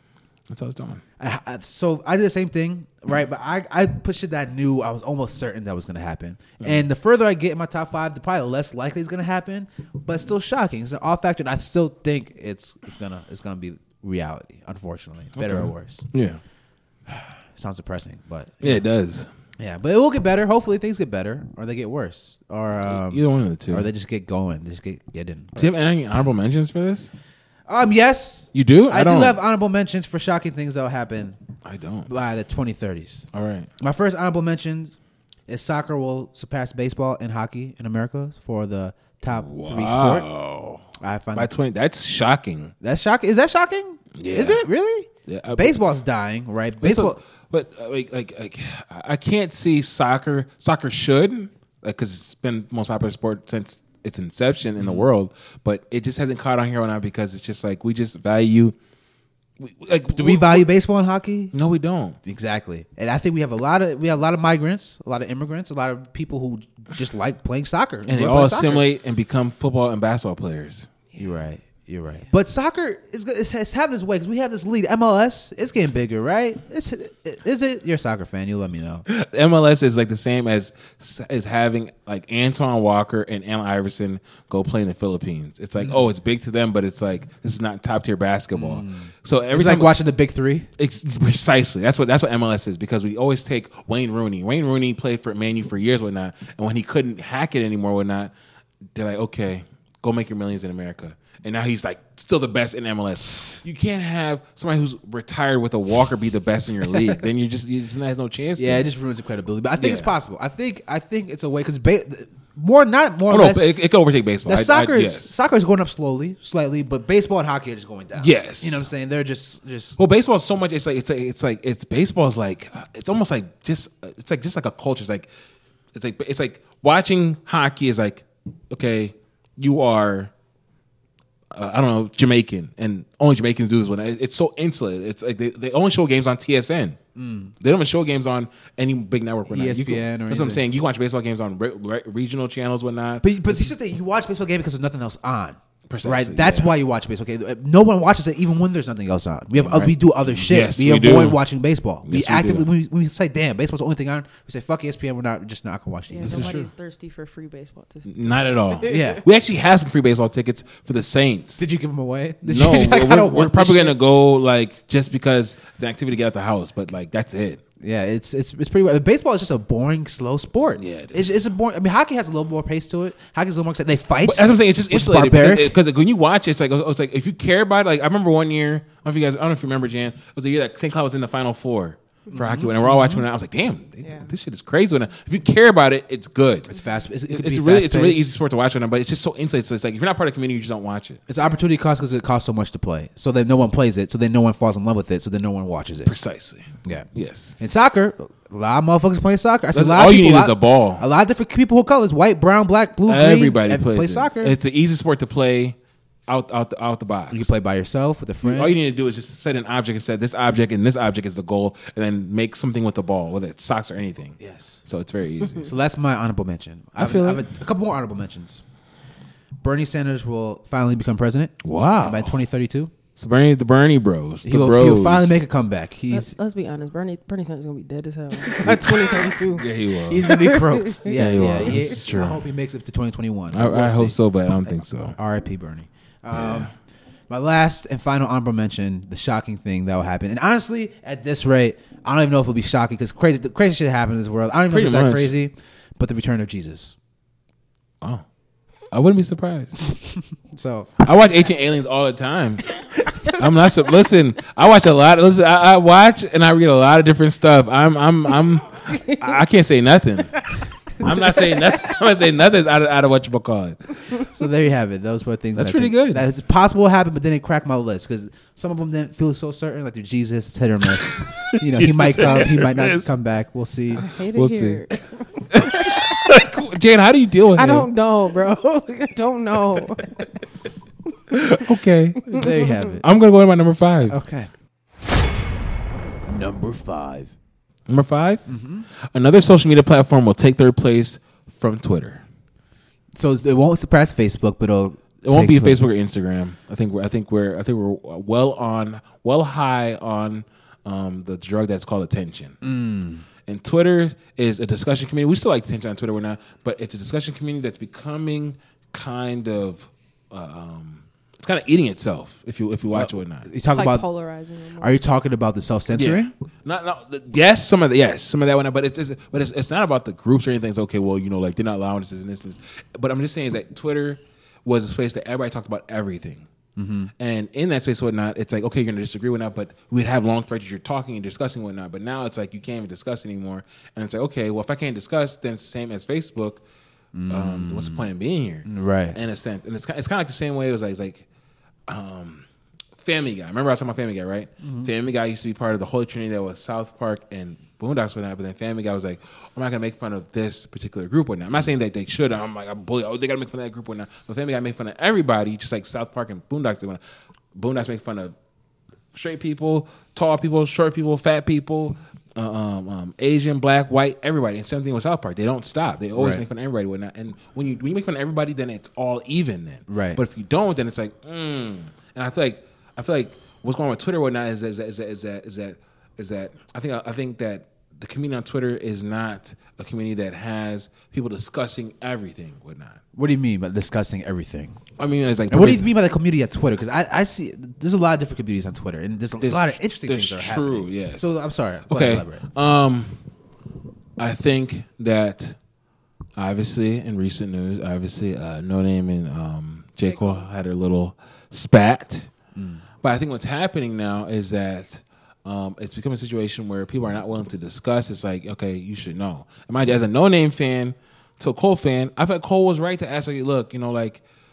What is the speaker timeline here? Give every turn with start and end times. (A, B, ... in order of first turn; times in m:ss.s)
0:00.5-0:01.0 A
0:01.2-0:16.0 B
0:06.6-0:06.8 A
0:15.4-0:16.4 A
0:17.1-0:18.8 B
0:18.6-0:19.3 A
0:19.6-0:25.7 B
0:22.8-0:23.9 A
0:25.6-0:27.1 A
0:27.7-0:31.4 B
0:28.5-0:29.4 A
0:31.6-0:32.2 A
0:32.1-0:33.3 B
0:33.3-0:33.7 A
0:33.8-0:35.0 B
0:35.5-0:40.3 B
0:39.3-0:42.7 A
0:41.0-0:41.5 B
0:42.8-0:47.2 B
0:44.2-0:44.6 A
0:45.3-0:46.0 A
0:46.8-0:58.7 A
0:54.8-0:55.1 B
0:59.6-1:00.6 A
1:00.1-1:01.5 B
1:01.5-1:02.2 A
1:02.2-1:08.9 B
1:08.0-1:10.9 A
1:11.2-1:19.0 B
1:19.1-1:29.9 A
1:28.5-1:30.7 B
1:30.8-1:38.3 A
1:38.9-1:48.9 A
1:46.9-1:47.2 B
1:48.6-1:53.6 B
1:49.8-1:50.1 A
1:53.3-1:55.4 A
1:54.4-2:00.0 B
1:58.2-1:58.9 A
2:00.0-2:05.3 A
2:05.9-2:10.3 A
2:11.5-2:17.0 A
2:17.2-2:17.5 B
2:17.6-2:23.7 A
2:19.5-2:20.6 B
2:23.2-2:36.6 B
2:25.9-2:26.7 A
2:29.6-2:31.4 A
2:32.0-2:32.7 A
2:36.1-2:39.2 C
2:36.2-2:36.7 A
2:38.1-2:41.6 A
2:38.9-2:39.2 B
2:41.6-2:44.0 B
2:42.4-2:47.6 A
2:47.8-2:55.7 B
2:50.8-2:51.4 A
2:54.2-3:06.7 A
3:02.3-3:03.2 B
3:04.0-3:04.3 C
3:06.6-3:08.3 B
3:07.3-3:11.2 A
3:11.3-3:16.1 B
3:16.0-3:17.6 A
3:17.6-3:24.6 B
3:19.7-3:21.0 A
3:23.1-3:25.8 A
3:26.3-3:27.5 A
3:27.3-3:28.7 B
3:28.4-3:35.7 A
3:34.4-3:34.8 B
3:35.5-3:38.6 B
3:37.0-3:37.4 A
3:39.6-3:42.9 B
3:41.6-3:42.3 A
3:43.2-3:45.3 A
3:44.4-3:46.3 B
3:46.1-3:52.0 C
3:49.5-3:50.3 A
3:50.0-3:54.2 B
3:51.1-3:52.4 A
3:53.5-3:55.2 A
3:54.7-3:56.7 B
3:56.4-3:56.7 A
3:57.3-4:06.9 B
4:04.7-4:05.3 A
4:08.9-4:09.8 A
4:09.9-4:10.9 B
4:11.0-4:24.1 A
4:18.9-4:19.3 C
4:20.4-4:21.6 C
4:24.2-4:34.0 B
4:25.6-4:26.2 A
4:31.0-4:33.1 A
4:34.0-4:36.4 C
4:34.3-4:34.8 A
4:35.5-4:37.9 A
4:37.5-4:40.3 C
4:41.3-4:44.2 A
4:42.3-4:42.7 C
4:42.3-4:43.1 B
4:44.1-4:44.5 B
4:46.2-4:47.3 B
4:47.9-4:48.5 A
4:48.5-4:48.9 B
4:49.1-4:52.2 A
4:53.1-4:55.8 B
4:55.2-5:02.6 A
5:02.6-5:03.2 B
5:03.4-5:13.5 A
5:12.9-5:14.0 B
5:13.7-5:14.9 C
5:14.8-5:16.3 B
5:15.9-5:26.5 A
5:26.8-5:27.1 B
5:27.2-5:36.6 A
5:37.1-5:38.1 B
5:37.3-5:41.2 A
5:38.6-5:39.2 B
5:41.9-5:42.4 A
5:43.0-5:57.0 A
5:44.6-5:44.9 B
5:57.5-5:58.3 A
5:59.1-6:23.0 A
6:06.1-6:06.4 B
6:09.9-6:10.2 B
6:23.2-6:24.8 B
6:25.0-6:25.9 A
6:25.5-6:32.4 B
6:29.4-6:31.3 A
6:31.9-6:33.2 A
6:34.2-6:35.6 A
6:36.4-6:42.3 A
6:40.0-6:40.4 C
6:42.5-6:42.8 B
6:43.0-6:54.2 A